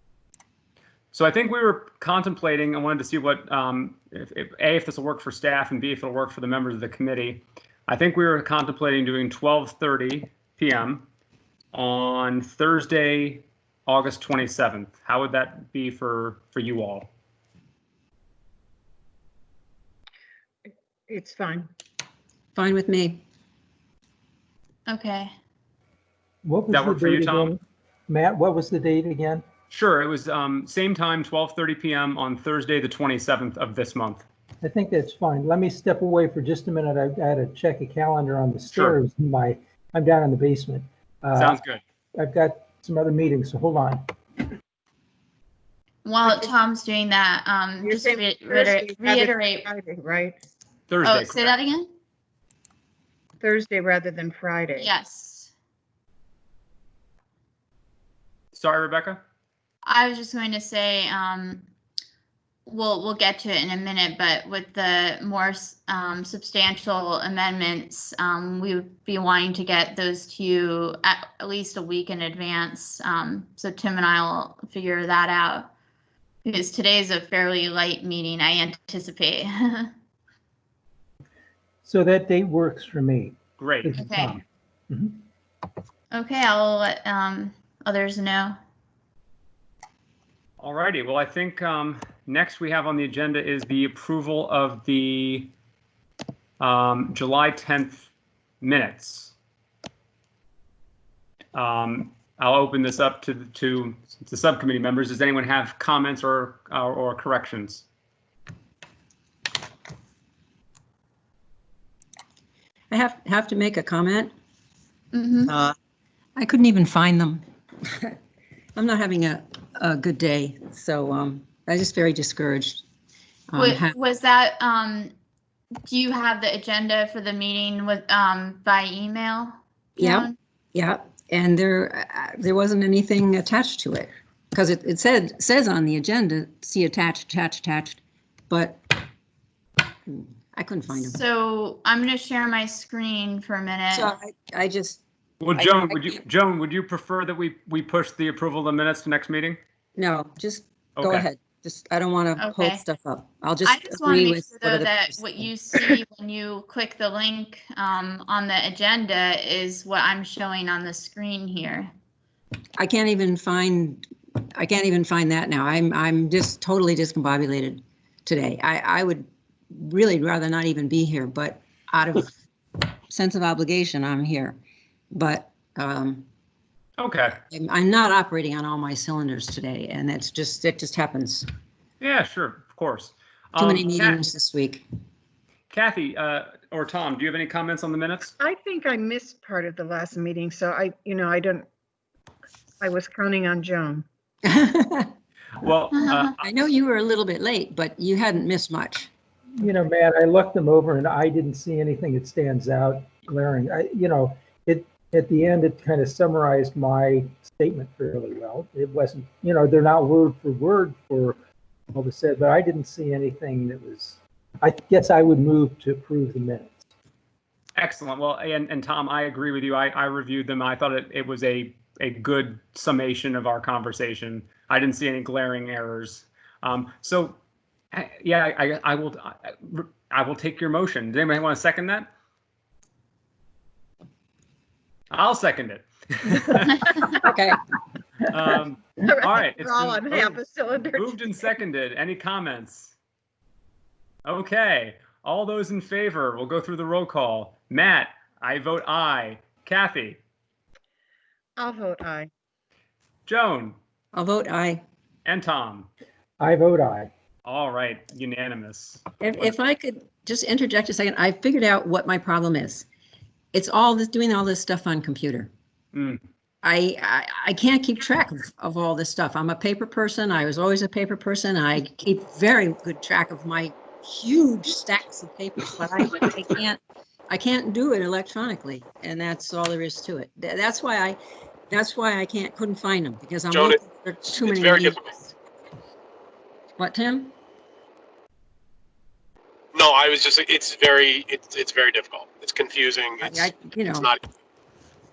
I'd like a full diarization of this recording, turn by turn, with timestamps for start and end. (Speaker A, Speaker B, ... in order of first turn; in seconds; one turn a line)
Speaker A: 1.1-11.1
Speaker A: 11.7-17.1
Speaker B: 21.1-21.7
Speaker C: 22.5-23.2
Speaker D: 24.9-25.3
Speaker E: 26.4-29.4
Speaker A: 26.7-27.5
Speaker A: 29.7-34.2
Speaker E: 34.6-41.6
Speaker A: 38.7-39.0
Speaker A: 41.4-41.8
Speaker E: 42.1-44.0
Speaker D: 46.0-49.7
Speaker B: 47.8-50.4
Speaker A: 50.9-51.5
Speaker D: 51.0-51.9
Speaker B: 53.4-54.9
Speaker D: 54.8-55.5
Speaker A: 58.5-59.2
Speaker D: 59.8-61.6
Speaker D: 62.7-75.7
Speaker D: 76.4-79.9
Speaker E: 81.8-85.2
Speaker A: 83.6-84.0
Speaker D: 84.0-84.4
Speaker D: 86.1-88.6
Speaker A: 90.6-95.5
Speaker A: 96.6-98.1
Speaker A: 98.6-99.3
Speaker A: 101.5-107.8
Speaker C: 112.9-114.3
Speaker D: 115.1-115.5
Speaker C: 115.5-115.7
Speaker C: 116.3-118.2
Speaker C: 118.7-122.8
Speaker C: 123.5-124.0
Speaker D: 123.6-125.1
Speaker D: 125.8-130.3
Speaker C: 130.0-139.0
Speaker C: 140.1-141.2
Speaker D: 140.9-144.1
Speaker C: 143.9-145.0
Speaker A: 145.4-149.6
Speaker C: 145.5-146.2
Speaker C: 149.9-156.0
Speaker A: 151.0-151.3
Speaker D: 152.4-152.8
Speaker D: 153.6-161.9
Speaker C: 162.8-172.3
Speaker C: 173.1-174.6
Speaker C: 175.1-176.2
Speaker A: 177.0-177.4
Speaker C: 177.5-181.5
Speaker A: 182.0-184.2
Speaker C: 183.6-184.8
Speaker A: 185.7-188.3
Speaker B: 188.4-191.7
Speaker B: 192.8-194.1
Speaker C: 194.4-195.1
Speaker A: 195.6-196.4
Speaker D: 195.9-196.3
Speaker C: 196.4-199.1
Speaker E: 199.6-211.4
Speaker E: 211.9-216.8
Speaker A: 217.8-227.4
Speaker A: 227.9-232.1
Speaker A: 235.1-237.1
Speaker C: 237.2-237.6
Speaker A: 238.2-240.4
Speaker B: 239.1-241.2
Speaker A: 240.9-242.9
Speaker A: 244.2-250.2
Speaker B: 251.6-252.3
Speaker A: 253.3-253.8
Speaker C: 254.1-254.8
Speaker A: 255.2-255.9
Speaker E: 256.4-257.1
Speaker A: 257.4-259.5
Speaker C: 259.2-262.9
Speaker C: 263.5-265.5
Speaker A: 265.9-266.2
Speaker C: 266.6-285.3
Speaker F: 283.5-283.8
Speaker F: 284.4-285.1
Speaker C: 286.8-287.3
Speaker F: 289.7-294.2
Speaker C: 293.2-294.1